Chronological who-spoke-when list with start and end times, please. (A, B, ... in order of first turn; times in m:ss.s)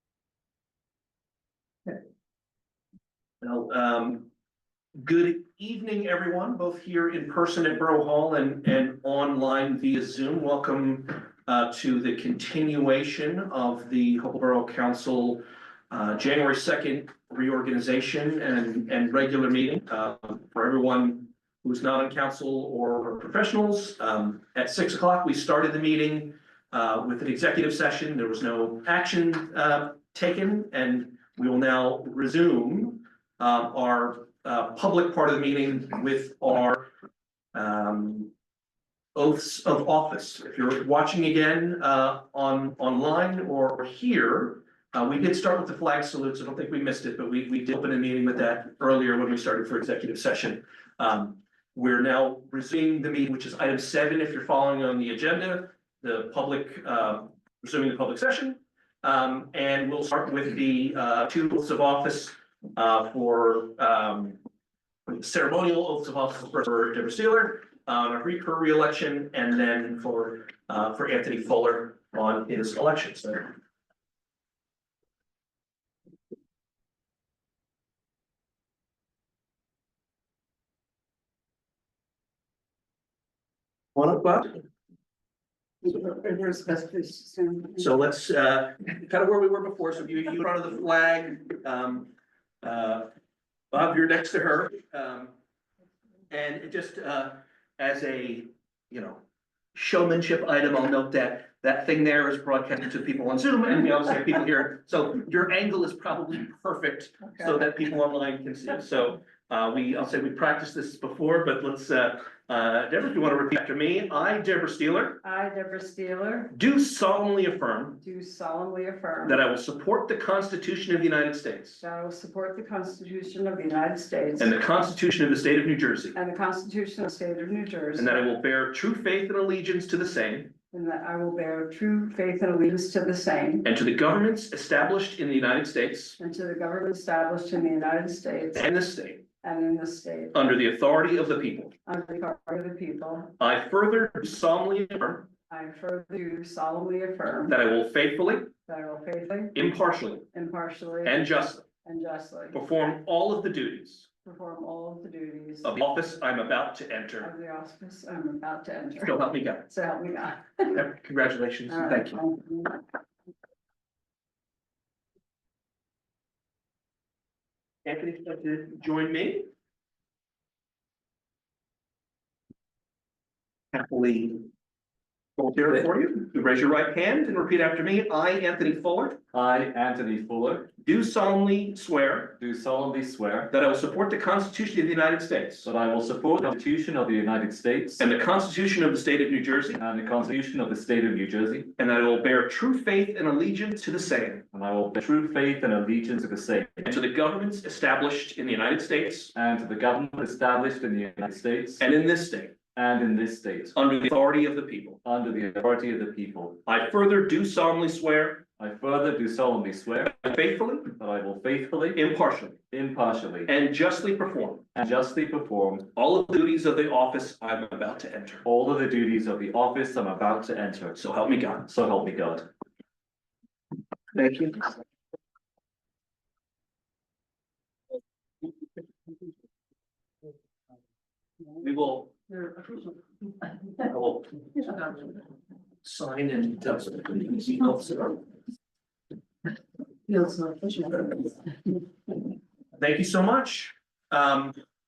0:03.4-0:04.3 A
0:05.0-0:36.9 A
0:37.5-0:38.3 A
0:39.2-1:04.4 A
1:05.1-1:13.5 A
1:24.0-1:24.6 A
1:25.8-1:27.9 B
1:27.8-1:32.1 A
1:32.6-1:33.1 A
1:33.7-1:35.3 A
1:36.3-1:39.2 A
1:39.8-1:55.2 A
1:47.2-1:47.6 B
1:55.2-1:56.5 B
1:56.5-1:58.0 A
1:58.0-1:59.4 B
1:59.2-2:01.8 A
2:01.8-2:04.6 B
2:04.4-2:06.2 A
2:06.2-2:08.2 B
2:08.0-2:10.5 A
2:10.7-2:13.7 B
2:13.6-2:16.2 A
2:16.2-2:18.7 B
2:18.6-2:19.2 A
2:19.4-2:20.5 B
2:20.3-2:21.7 A
2:21.8-2:23.3 B
2:23.4-2:25.3 A
2:25.5-2:27.6 B
2:27.5-2:28.5 A
2:28.7-2:29.6 B
2:29.5-2:30.3 A
2:30.3-2:31.3 B
2:31.0-2:31.6 A
2:31.8-2:32.6 B
2:32.5-2:34.1 A
2:34.2-2:35.8 B
2:35.6-2:37.3 A
2:37.2-2:40.8 B
2:39.0-2:39.7 A
2:40.7-2:42.2 A
2:41.7-2:42.8 B
2:47.8-2:49.5 A
2:53.7-2:54.5 A
2:55.4-2:59.2 A
2:59.3-3:00.7 C
3:00.8-3:02.4 A
3:02.4-3:03.5 C
3:03.5-3:05.7 A
3:05.6-3:08.0 C
3:08.0-3:09.8 A
3:09.8-3:11.7 C
3:11.8-3:14.4 A
3:14.5-3:16.8 C
3:16.8-3:19.4 A
3:19.4-3:21.8 C
3:21.8-3:22.6 A
3:22.8-3:23.8 C
3:23.8-3:25.0 A
3:25.0-3:26.6 C
3:26.7-3:28.4 A
3:28.6-3:30.2 C
3:30.2-3:30.9 A
3:31.0-3:32.0 C
3:31.9-3:32.6 A
3:32.7-3:33.5 C
3:33.5-3:34.7 A
3:34.8-3:35.9 C
3:36.0-3:38.5 A
3:38.5-3:41.0 C
3:41.0-3:41.7 A
3:41.7-3:42.5 C
3:44.1-3:44.7 A
3:51.6-3:52.1 A
3:52.3-3:53.9 B
3:53.9-3:54.3 A
3:54.6-3:55.2 B
3:55.8-3:58.2 A
4:00.1-4:01.8 B
4:02.8-4:04.6 A